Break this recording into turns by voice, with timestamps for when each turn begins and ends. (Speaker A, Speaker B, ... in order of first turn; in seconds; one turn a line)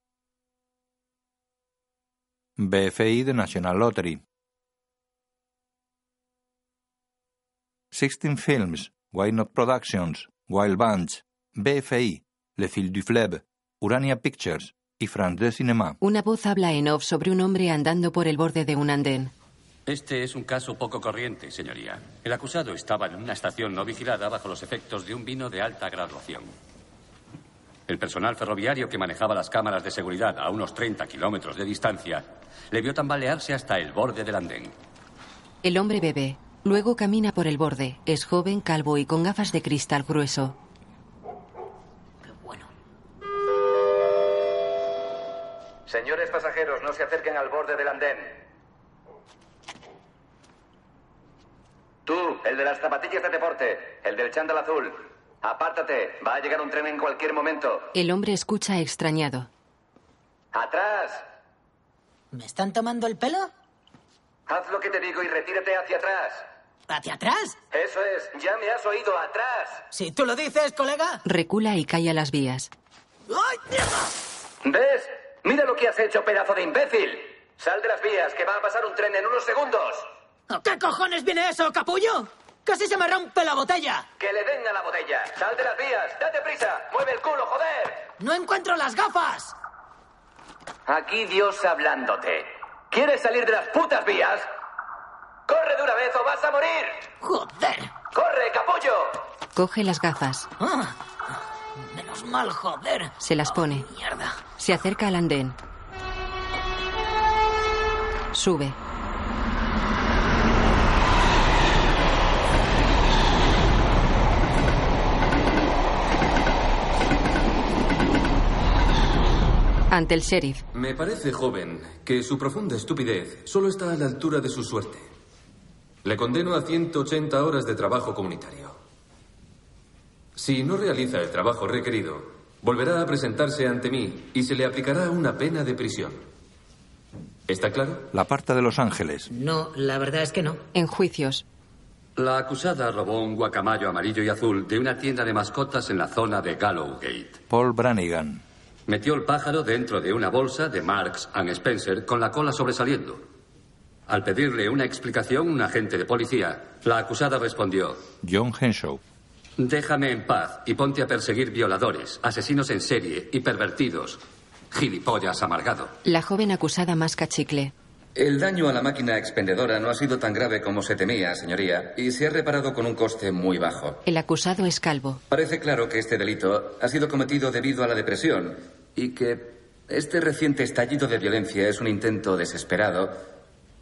Speaker A: 2.6-4.2
Speaker A: 7.9-16.0
Speaker B: 16.0-19.3
Speaker C: 19.9-26.5
Speaker C: 27.9-34.7
Speaker B: 35.6-40.5
Speaker D: 42.2-42.6
Speaker E: 45.9-48.4
Speaker E: 52.0-57.8
Speaker B: 57.9-59.5
Speaker E: 60.5-61.2
Speaker D: 62.3-63.5
Speaker E: 64.5-66.4
Speaker D: 66.9-67.5
Speaker E: 67.7-69.8
Speaker D: 69.9-71.2
Speaker B: 71.2-72.7
Speaker E: 74.6-80.1
Speaker D: 80.5-84.0
Speaker E: 84.2-88.0
Speaker D: 88.2-89.5
Speaker E: 90.9-94.4
Speaker E: 95.5-96.9
Speaker D: 97.2-97.9
Speaker E: 98.1-99.2
Speaker B: 99.5-100.5
Speaker D: 100.6-100.9
Speaker D: 101.8-103.1
Speaker B: 103.2-103.9
Speaker D: 103.8-104.3
Speaker B: 104.6-105.5
Speaker B: 108.3-108.8
Speaker B: 119.9-120.6
Speaker F: 120.7-125.1
Speaker F: 126.0-128.8
Speaker F: 130.3-136.2
Speaker F: 137.5-138.1
Speaker A: 138.1-139.3
Speaker D: 139.3-140.6
Speaker B: 140.7-141.4
Speaker C: 142.2-147.4
Speaker A: 147.5-148.4
Speaker C: 148.9-153.2
Speaker C: 154.1-158.0
Speaker A: 158.2-159.0
Speaker C: 159.6-164.2
Speaker C: 164.7-165.9
Speaker B: 166.0-167.7
Speaker G: 168.1-174.0
Speaker B: 174.1-175.2
Speaker G: 175.3-183.2